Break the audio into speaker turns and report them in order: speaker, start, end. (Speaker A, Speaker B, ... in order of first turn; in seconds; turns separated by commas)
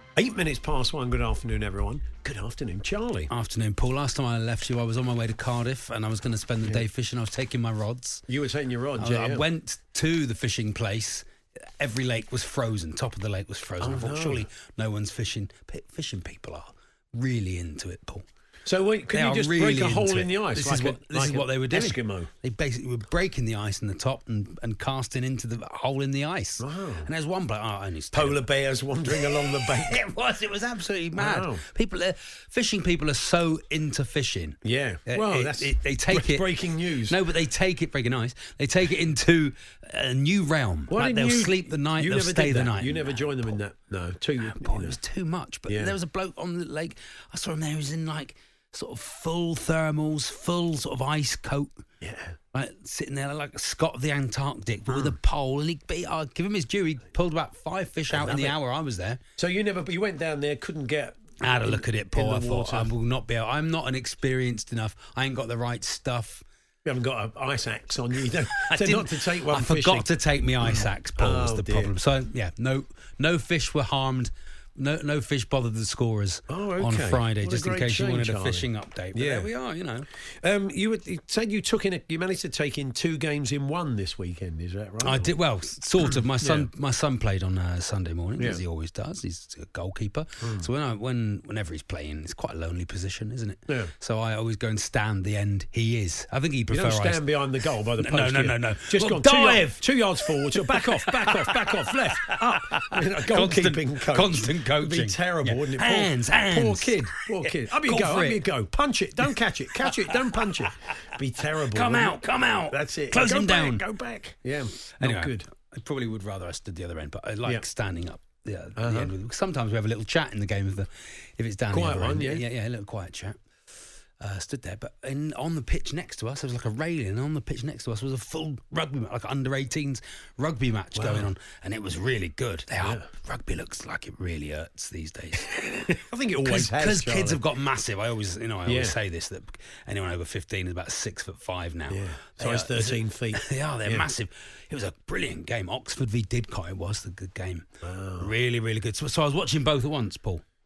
Speaker A: 0.2-3.3, Speaker B: 3.3-8.2, Speaker A: 8.3-9.4, Speaker B: 9.0-11.2, Speaker B: 11.8-18.2, Speaker A: 13.8-14.4, Speaker A: 18.7-22.3, Speaker B: 19.1-28.4, Speaker A: 26.6-27.1, Speaker A: 28.1-30.0, Speaker B: 29.1-36.5, Speaker A: 31.2-31.6, Speaker A: 34.6-37.2, Speaker B: 37.1-43.5, Speaker A: 40.9-45.0, Speaker B: 44.4-51.9, Speaker A: 45.7-46.0, Speaker A: 52.0-52.4, Speaker B: 52.5-59.2, Speaker A: 54.9-55.2, Speaker A: 58.1-58.6, Speaker A: 59.4-62.9, Speaker B: 61.4-66.4, Speaker A: 66.8-70.1, Speaker B: 68.7-80.1, Speaker A: 70.6-72.0, Speaker A: 76.5-79.5, Speaker A: 80.3-85.3, Speaker B: 85.0-97.2, Speaker A: 86.0-86.7, Speaker A: 90.4-90.7, Speaker A: 96.7-112.2, Speaker B: 98.0-99.7, Speaker B: 100.7-108.4, Speaker B: 109.8-110.3, Speaker B: 111.7-113.8, Speaker A: 112.7-115.5, Speaker B: 115.0-123.4, Speaker A: 118.8-119.1, Speaker A: 121.7-122.5, Speaker B: 124.2-135.6, Speaker A: 130.9-131.3, Speaker A: 135.6-137.4, Speaker B: 136.4-147.7, Speaker A: 138.7-139.0, Speaker A: 141.9-144.1, Speaker A: 147.8-148.3, Speaker B: 148.2-150.4